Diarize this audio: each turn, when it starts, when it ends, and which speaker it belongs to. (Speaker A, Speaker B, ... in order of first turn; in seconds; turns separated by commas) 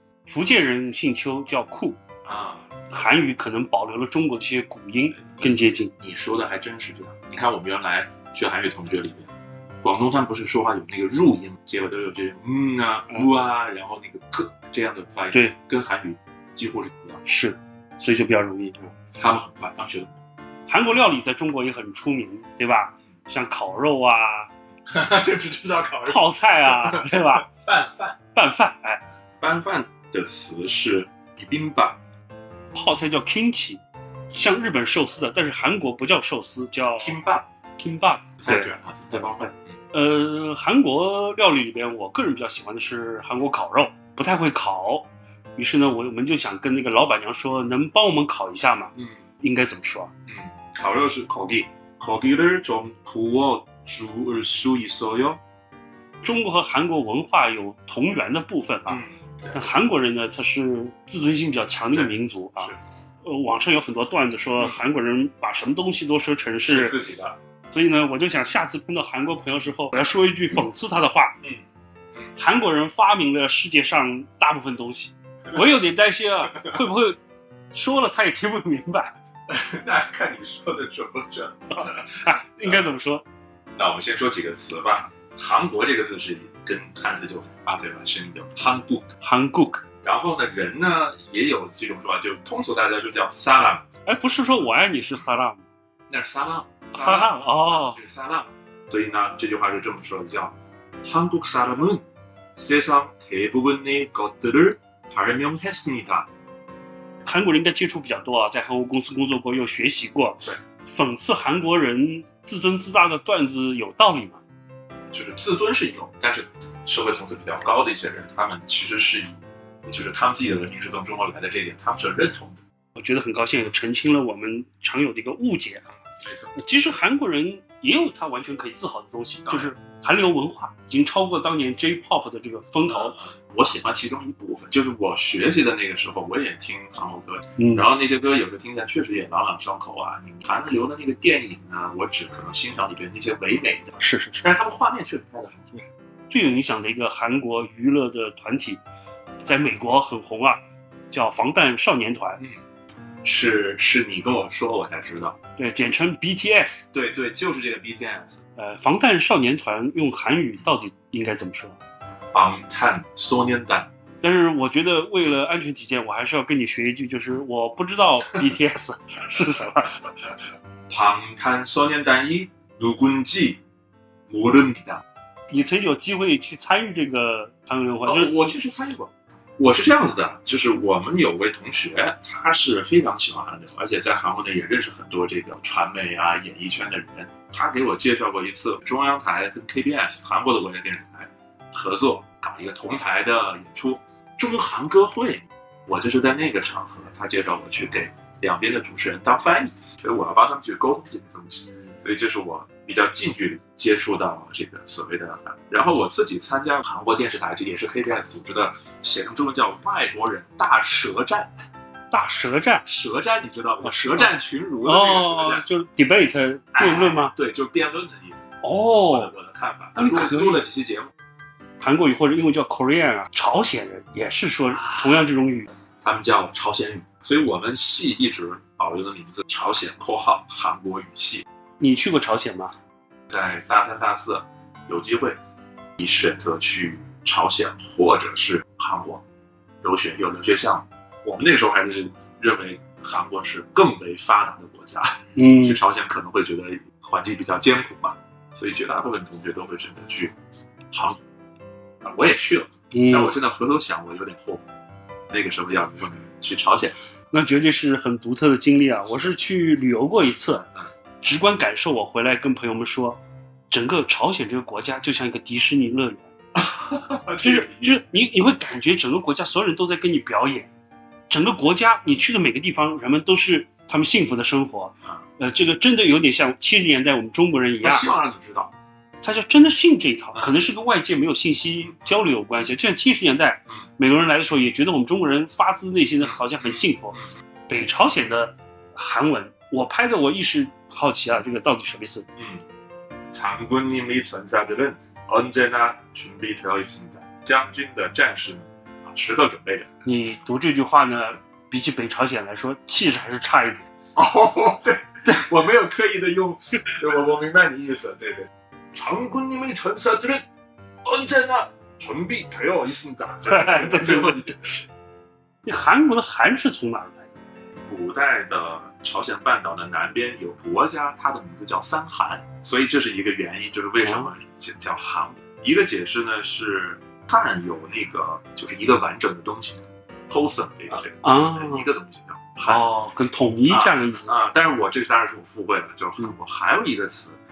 Speaker A: 0.3-2.0, Speaker B: 2.2-2.7, Speaker A: 2.9-5.9, Speaker B: 5.2-17.2, Speaker A: 17.2-18.9, Speaker B: 19.2-20.1, Speaker A: 20.7-24.5, Speaker B: 24.9-28.2, Speaker A: 26.1-27.5, Speaker A: 28.3-29.0, Speaker B: 29.4-32.0, Speaker A: 32.7-37.2, Speaker B: 37.0-37.5, Speaker A: 37.8-38.7, Speaker B: 38.4-39.7, Speaker A: 39.9-50.1, Speaker B: 50.3-55.4, Speaker A: 56.2-59.0, Speaker B: 58.9-59.7, Speaker A: 59.5-67.0, Speaker B: 61.9-62.8, Speaker B: 66.7-67.3, Speaker A: 67.7-71.3, Speaker A: 72.3-77.2, Speaker A: 77.7-79.1, Speaker B: 79.5-82.8, Speaker A: 82.2-83.2, Speaker B: 83.8-89.1, Speaker A: 89.2-89.8, Speaker B: 90.0-93.8, Speaker A: 94.1-95.6, Speaker B: 96.1-102.0, Speaker A: 96.9-98.0, Speaker B: 102.6-106.3, Speaker A: 107.2-114.4, Speaker B: 115.1-122.6, Speaker A: 123.0-125.9, Speaker A: 126.5-133.2, Speaker B: 129.5-129.7, Speaker B: 132.9-145.8, Speaker A: 137.6-137.9, Speaker A: 144.0-144.5, Speaker A: 146.3-148.8, Speaker A: 149.4-150.6, Speaker A: 151.1-152.4, Speaker B: 153.2-155.4, Speaker A: 155.6-156.8, Speaker B: 156.9-158.4, Speaker A: 158.6-161.8, Speaker B: 162.3-163.9, Speaker A: 164.2-169.9, Speaker B: 170.9-173.6, Speaker B: 174.3-175.0, Speaker A: 175.5-178.5, Speaker B: 178.0-211.5, Speaker A: 212.1-212.8, Speaker B: 212.8-215.7, Speaker A: 213.8-217.3, Speaker B: 216.7-218.4, Speaker A: 218.6-219.3, Speaker B: 219.1-221.1, Speaker A: 220.0-220.6, Speaker A: 221.8-225.7, Speaker B: 224.7-225.3, Speaker B: 226.0-231.4, Speaker A: 231.8-232.7, Speaker B: 233.3-235.4, Speaker B: 236.0-239.2, Speaker B: 239.8-250.3, Speaker A: 245.3-245.8, Speaker B: 250.9-251.2, Speaker B: 252.0-254.6, Speaker A: 252.9-253.3, Speaker B: 255.3-256.9, Speaker A: 257.3-260.7, Speaker A: 261.2-263.2, Speaker A: 263.7-266.3, Speaker B: 266.6-268.0, Speaker A: 267.4-270.7, Speaker A: 271.3-278.1, Speaker B: 277.8-278.7, Speaker A: 279.2-287.2, Speaker B: 280.3-280.6, Speaker B: 286.2-287.2, Speaker A: 287.7-292.2, Speaker B: 292.4-292.6, Speaker B: 293.3-299.9, Speaker A: 300.0-303.9, Speaker B: 304.1-310.4, Speaker B: 311.0-314.8, Speaker A: 313.4-314.4, Speaker A: 315.6-317.3, Speaker B: 317.9-332.9, Speaker A: 324.0-324.3, Speaker A: 330.9-331.9, Speaker A: 332.6-334.3, Speaker B: 333.7-337.4